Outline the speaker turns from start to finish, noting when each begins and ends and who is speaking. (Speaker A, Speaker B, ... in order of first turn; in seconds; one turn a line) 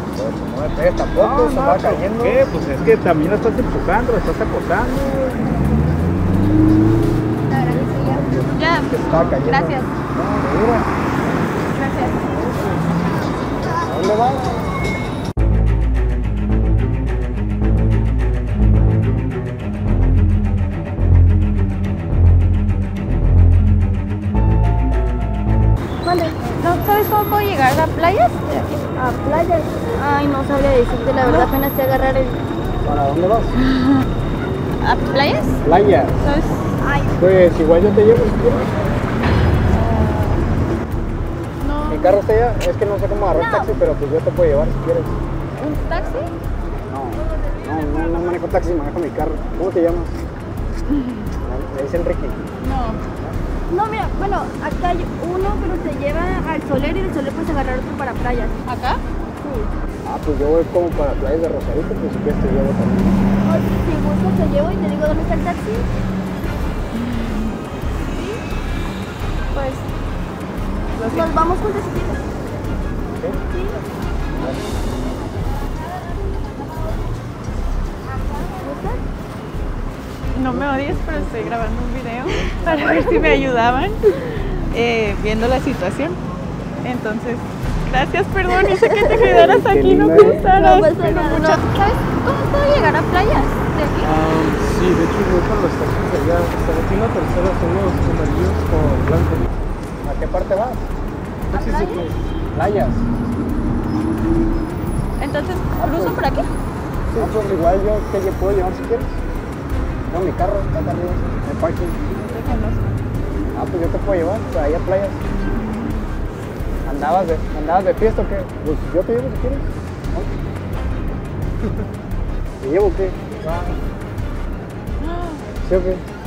Speaker A: 0.2-2.4
Speaker B: 1.2-5.5
Speaker C: 7.5-8.2
Speaker A: 7.9-10.9
Speaker D: 8.5-9.9
Speaker D: 11.7-12.3
Speaker A: 13.8-14.7
Speaker C: 26.0-26.4
Speaker D: 26.6-28.7
Speaker C: 28.9-32.4
Speaker D: 31.2-31.5
Speaker A: 32.8-33.5
Speaker D: 34.8-35.6
Speaker A: 35.6-36.1
Speaker D: 36.2-36.7
Speaker C: 36.8-37.2
Speaker A: 37.2-38.7
Speaker D: 39.7-40.4
Speaker D: 41.6-42.2
Speaker A: 41.9-45.1
Speaker C: 43.3-43.8
Speaker D: 45.5-46.3
Speaker A: 46.9-50.1
Speaker D: 50.9-51.3
Speaker A: 51.4-52.4
Speaker D: 52.6-53.0
Speaker C: 53.7-58.6
Speaker D: 58.6-59.0
Speaker C: 59.4-59.7
Speaker A: 60.0-63.2
Speaker C: 63.4-65.9
Speaker D: 66.9-67.6
Speaker D: 68.1-68.4
Speaker D: 69.5-69.9
Speaker D: 70.9-71.5
Speaker C: 71.1-72.2
Speaker C: 73.5-73.8
Speaker C: 78.6-79.0
Speaker D: 80.3-86.2
Speaker A: 80.5-81.5
Speaker D: 86.8-94.1
Speaker C: 88.7-89.4
Speaker A: 89.5-90.4
Speaker C: 90.3-91.8
Speaker B: 94.0-99.5
Speaker A: 100.0-100.8
Speaker B: 101.5-102.1
Speaker D: 101.5-102.1
Speaker A: 102.5-103.0
Speaker D: 105.2-106.5
Speaker A: 105.7-106.2
Speaker A: 107.1-109.2
Speaker A: 110.1-112.0
Speaker D: 112.1-112.9
Speaker A: 113.5-115.2
Speaker D: 115.5-116.0
Speaker A: 116.8-120.3
Speaker A: 122.6-123.2
Speaker D: 125.0-125.4
Speaker A: 125.6-126.0